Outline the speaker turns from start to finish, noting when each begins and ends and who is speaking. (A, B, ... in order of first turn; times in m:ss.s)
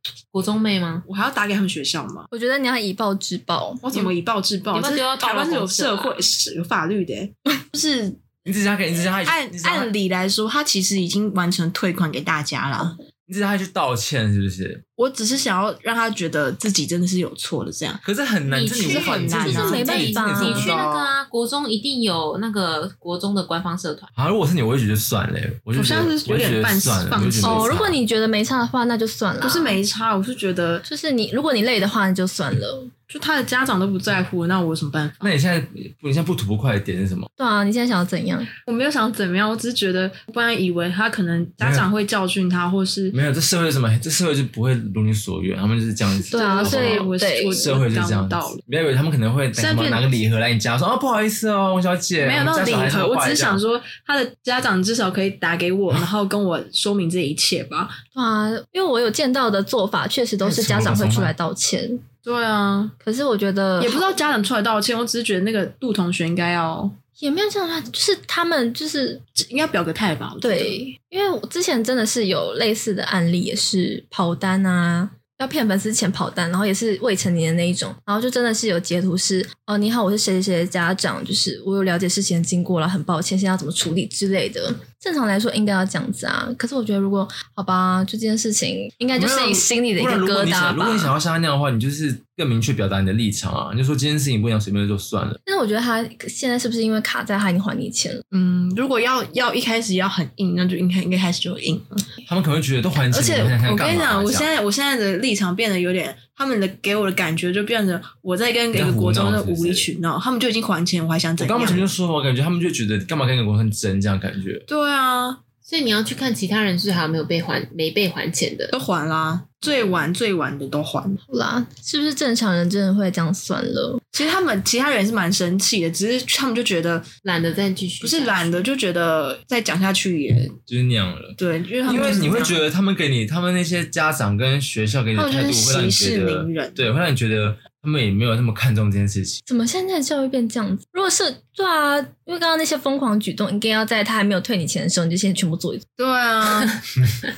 0:00.3-0:01.0 A
0:01.0-0:02.3 B
0:02.3-0:03.8 C
0:03.8-0:08.3 B
0:04.7-0:06.3 A
0:08.4-0:09.9 D
0:09.2-0:13.0 B
0:13.3-0:14.8 D
0:15.0-0:18.0 B
0:18.0-0:21.1 D
0:18.5-0:24.1 A
0:18.7-0:20.1 B
0:19.5-0:20.8 C
0:24.2-0:28.0 D
0:25.7-0:27.7 B
0:27.4-0:29.8 C
0:29.4-0:30.8 B
0:30.8-0:32.9 C
0:33.1-0:35.3 B
0:35.2-0:37.3 D
0:37.4-0:38.5 C
0:38.6-0:43.2 B
0:41.6-0:41.9 D
0:43.1-0:53.6 D
0:46.2-0:48.6 B
0:46.3-0:47.7 C
0:49.5-0:50.1 B
0:52.2-0:58.0 B
0:58.1-1:02.0 C
1:00.4-1:01.3 D
1:02.2-1:02.9 B
1:03.0-1:04.2 C
1:03.8-1:07.0 B
1:07.2-1:09.2 C
1:09.3-1:10.8 B
1:10.4-1:31.1 C
1:29.2-1:35.4 D
1:35.4-1:38.2 C
1:38.3-1:42.0 B
1:42.2-1:44.5 D
1:43.1-1:51.9 B
1:48.7-1:49.9 D
1:51.4-1:54.6 D
1:54.7-1:55.4 B
1:55.6-1:58.7 A
1:58.7-2:01.2 B
2:01.3-2:04.0 C
2:04.1-2:07.1 B
2:07.2-2:08.6 A
2:08.0-2:10.6 B
2:10.7-2:19.4 D
2:11.4-2:12.6 B
2:15.1-2:16.8 B
2:19.5-2:25.8 C
2:26.0-2:26.8 B